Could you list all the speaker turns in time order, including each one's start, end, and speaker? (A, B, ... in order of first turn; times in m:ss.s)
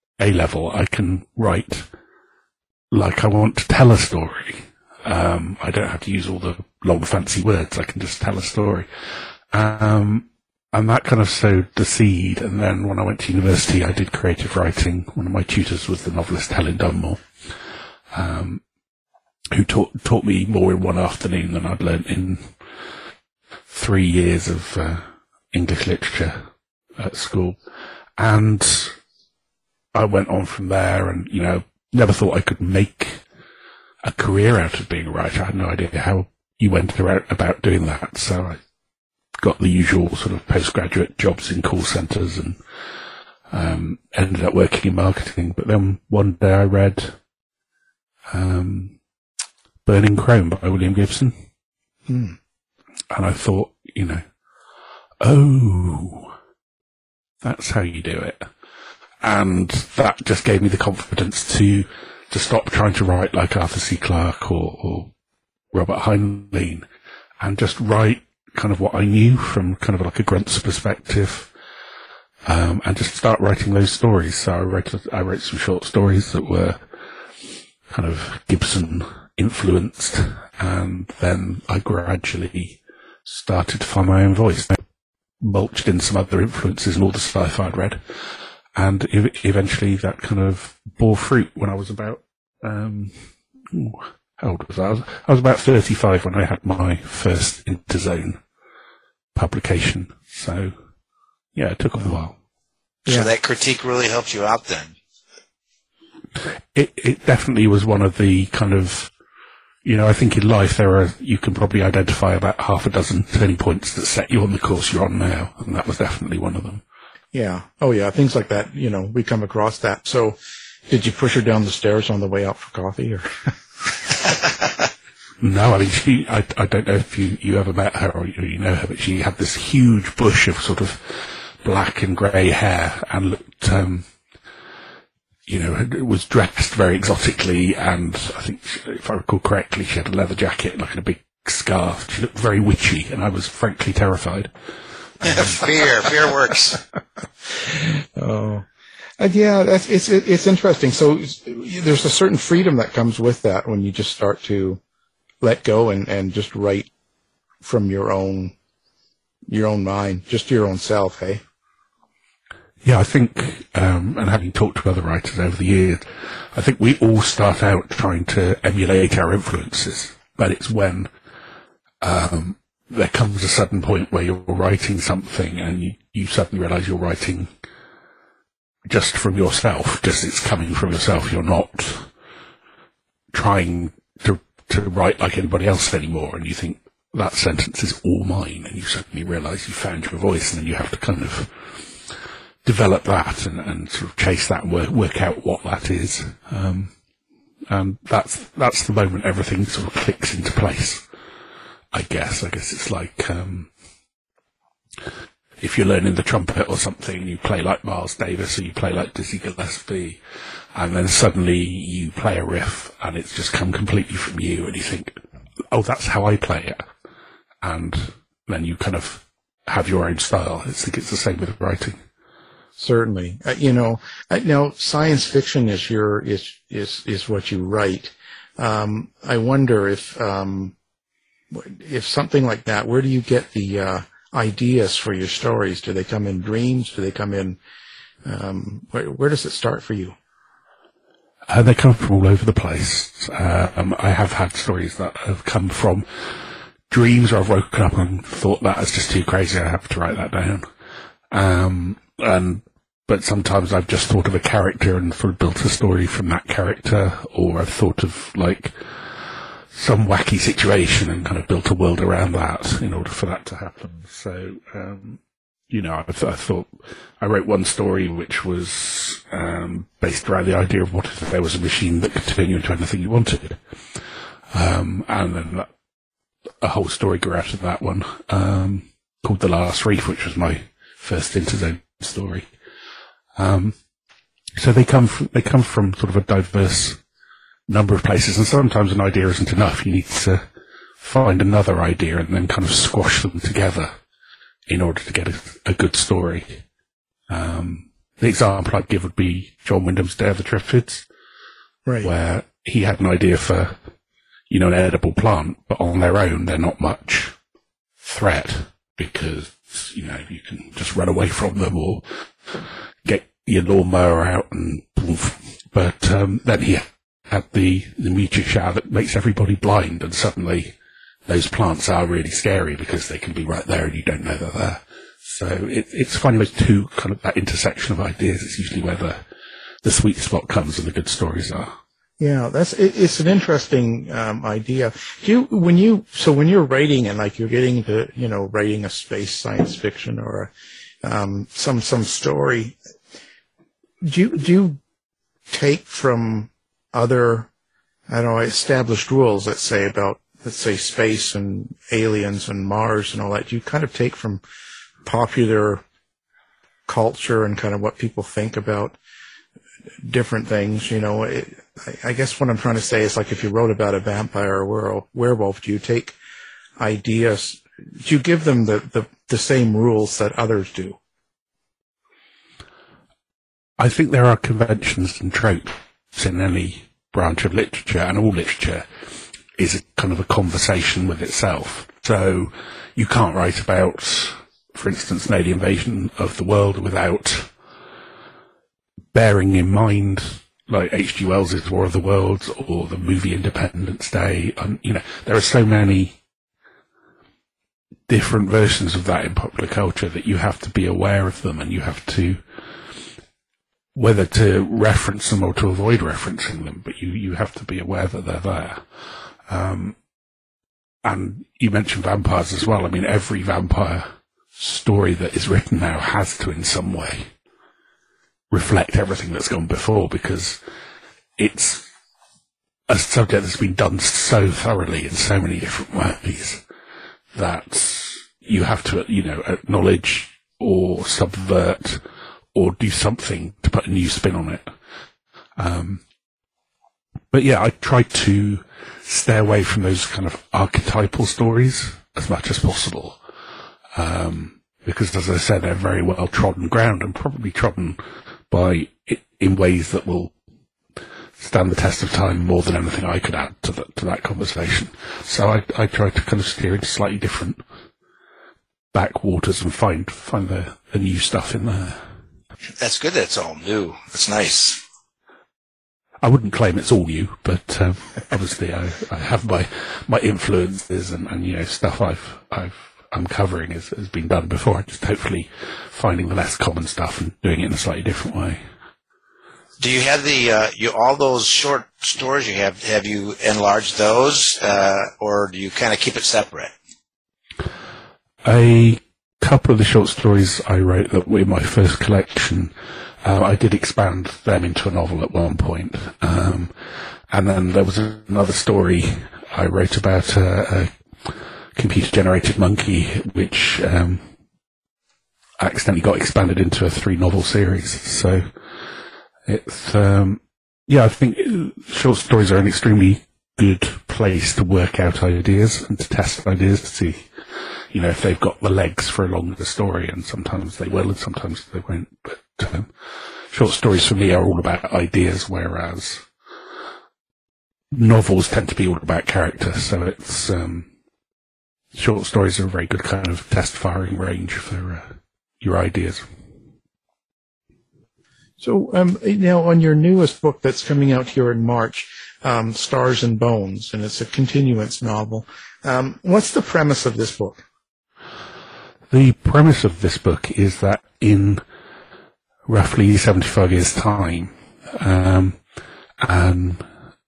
0:00.2-0:01.9 A
0:02.9-0:08.9 A
0:09.5-0:17.2 A
0:18.1-0:18.6 A
0:19.5-0:22.5 A
0:23.7-0:26.5 A
0:27.0-0:27.6 A
0:28.2-0:29.0 A
0:29.9-0:33.2 A
0:34.0-0:38.6 A
0:39.4-0:42.6 A
0:43.5-0:47.2 A
0:48.3-0:49.0 A
0:49.8-0:51.4 A
0:52.1-0:52.4 B
0:53.1-0:54.2 A
0:55.2-0:56.3 A
0:57.4-0:58.5 A
0:59.2-1:05.1 A
1:05.7-1:06.9 A
1:07.4-1:11.5 A
1:12.5-1:16.8 A
1:17.9-1:24.8 A
1:25.4-1:28.0 A
1:28.8-1:33.2 A
1:33.7-1:38.4 A
1:39.3-1:40.8 A
1:41.6-1:42.4 A
1:43.1-1:45.0 C
1:43.1-1:43.3 B
1:46.7-1:49.1 A
1:49.8-1:56.8 A
1:57.3-2:00.4 B
2:00.9-2:03.3 B
2:05.4-2:14.1 A
2:15.5-2:24.5 A
2:25.2-2:26.8 C
2:27.6-2:28.7 B
2:29.2-2:34.8 B
2:35.4-2:36.9 B
2:37.6-2:38.5 B
2:39.5-2:41.4 B
2:42.8-2:51.1 A
2:52.0-2:57.5 A
2:58.9-3:02.1 A
3:03.3-3:11.8 A
3:12.6-3:16.9 A
3:17.7-3:21.0 A
3:21.9-3:23.7 A
3:25.6-3:30.2 A
3:30.8-3:35.2 A
3:35.7-3:36.8 A
3:37.6-3:42.0 A
3:42.8-3:50.8 B
3:51.5-3:57.6 B
3:58.2-4:00.2 B
4:01.5-4:06.1 A
4:06.9-4:10.7 A
4:11.3-4:33.6 A
4:34.5-4:35.7 A
4:36.6-4:42.5 A
4:43.4-4:43.8 A
4:44.6-4:47.0 A
4:47.7-4:50.4 A
4:51.0-4:53.9 A
4:54.7-4:56.6 A
4:57.3-5:01.1 A
5:01.9-5:02.1 B
5:02.0-5:03.8 A
5:04.5-5:07.4 A
5:08.0-5:12.1 A
5:13.0-5:20.8 A
5:21.3-5:29.2 A
5:29.8-5:31.8 A
5:32.2-5:40.5 B
5:41.0-5:42.8 B
5:44.0-5:44.8 B
5:45.5-5:47.5 B
5:48.1-5:54.4 B
5:55.0-5:55.8 B
5:56.9-5:59.0 B
6:00.1-6:06.2 B
6:06.8-6:11.0 B
6:13.8-6:18.9 A
6:19.6-6:27.5 A
6:29.1-6:36.2 A
6:38.1-6:42.4 A
6:44.0-6:48.9 A
6:49.5-6:50.0 A
6:51.0-6:57.3 A
6:58.5-7:00.6 A
7:01.4-7:01.9 A
7:02.9-7:06.6 A
7:07.3-7:14.7 A
7:15.6-7:16.0 A
7:17.3-7:23.2 A
7:24.0-7:30.3 A
7:31.4-7:37.6 A
7:38.9-7:42.0 A
7:42.8-7:44.8 C
7:46.2-7:58.6 A
7:59.8-8:06.7 C
8:08.4-8:16.7 A
8:17.3-8:24.3 A
8:25.6-8:28.5 A
8:29.5-8:37.2 A
8:37.9-8:42.9 A
8:43.5-8:46.2 A
8:47.9-8:50.9 A
8:51.9-8:56.2 A
8:58.6-9:07.6 B
9:09.1-9:11.6 A
9:12.7-9:15.6 A
9:16.2-9:16.8 A